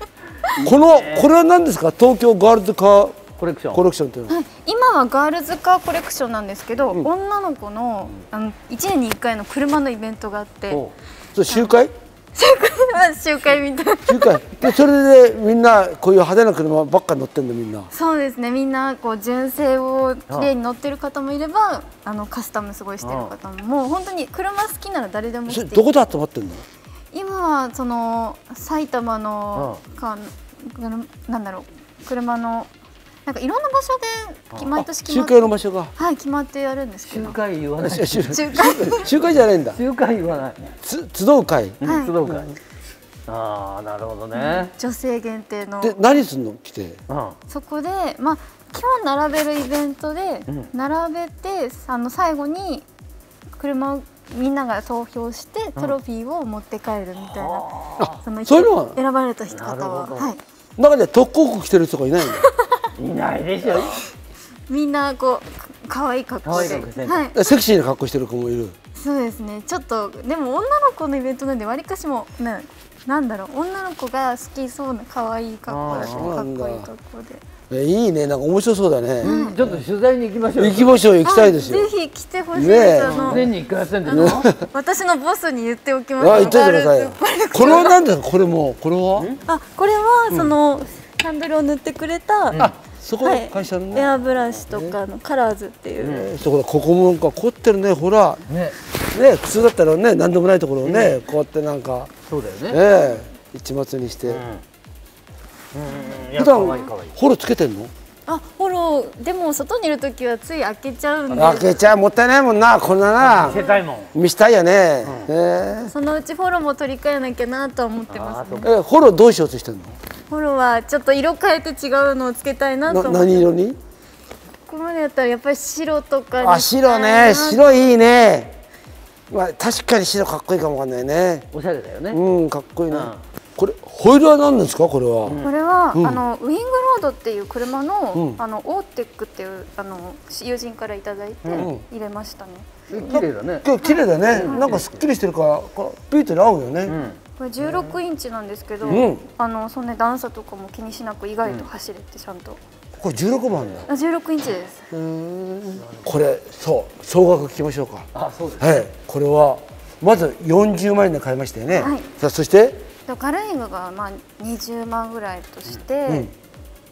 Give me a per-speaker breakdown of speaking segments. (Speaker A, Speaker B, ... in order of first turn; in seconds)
Speaker A: 0.6-1.3, 3.4-3.8, 23.0-23.3, 37.0-38.4, 39.7-40.8, 41.8-42.5, 43.3-44.7, 47.1-47.4, 57.2-58.2, 59.5-60.3, 63.0-64.0, 66.5-67.3, 75.7-76.3, 79.2-81.0, 83.1-84.5, 96.0-96.3, 98.5-98.8, 100.8-101.2, 102.3-102.8, 104.3-104.6, 105.7-107.1, 111.3-111.6, 113.2-114.1, 115.0-115.3, 118.1-118.7, 131.5-132.2, 132.9-133.2, 135.2-135.5, 142.9-143.7, 144.3-145.0, 146.9-147.2, 155.8-156.1, 158.1-158.8
Speaker B: 0.6-3.2, 3.7-4.4, 11.3-11.9, 14.1-17.9, 25.5-26.6, 34.7-35.9, 37.8-39.8, 40.8-42.6, 45.8-47.0, 58.0-59.0, 60.8-62.5, 66.6-68.8, 75.9-76.9, 77.7-79.8, 80.6-81.9, 82.5-83.5, 84.1-84.6, 86.2-89.3, 92.6-95.0, 96.0-98.5, 99.1-102.1, 102.7-104.4, 106.3-107.9, 111.3-113.6, 114.1-115.9, 118.6-120.0, 122.9-123.8, 126.4-128.6, 129.3-131.5, 132.1-135.4, 135.9-136.2, 138.1-138.4, 141.6-141.8, 143.1-147.0, 147.6-147.9, 148.9-149.2, 152.9-153.9, 154.9-162.9
Speaker C: 4.3-10.8, 11.5-11.8, 12.3-14.7, 17.9-26.0, 27.1-32.7, 33.3-37.4, 38.2-39.1, 41.9-42.2, 44.3-46.0, 47.5-52.9, 53.6-57.7, 58.2-60.4, 62.3-62.9, 64.7-67.4, 69.0-77.4, 79.2-79.6, 81.2-88.0, 89.5-92.6, 93.2-96.2, 105.9-106.9, 108.3-111.9, 113.4-113.9, 115.9-118.7, 120.3-123.5, 124.7-127.7, 135.4-144.8, 147.4-152.6, 153.9-154.8, 161.8-162.1, 163.1-166.3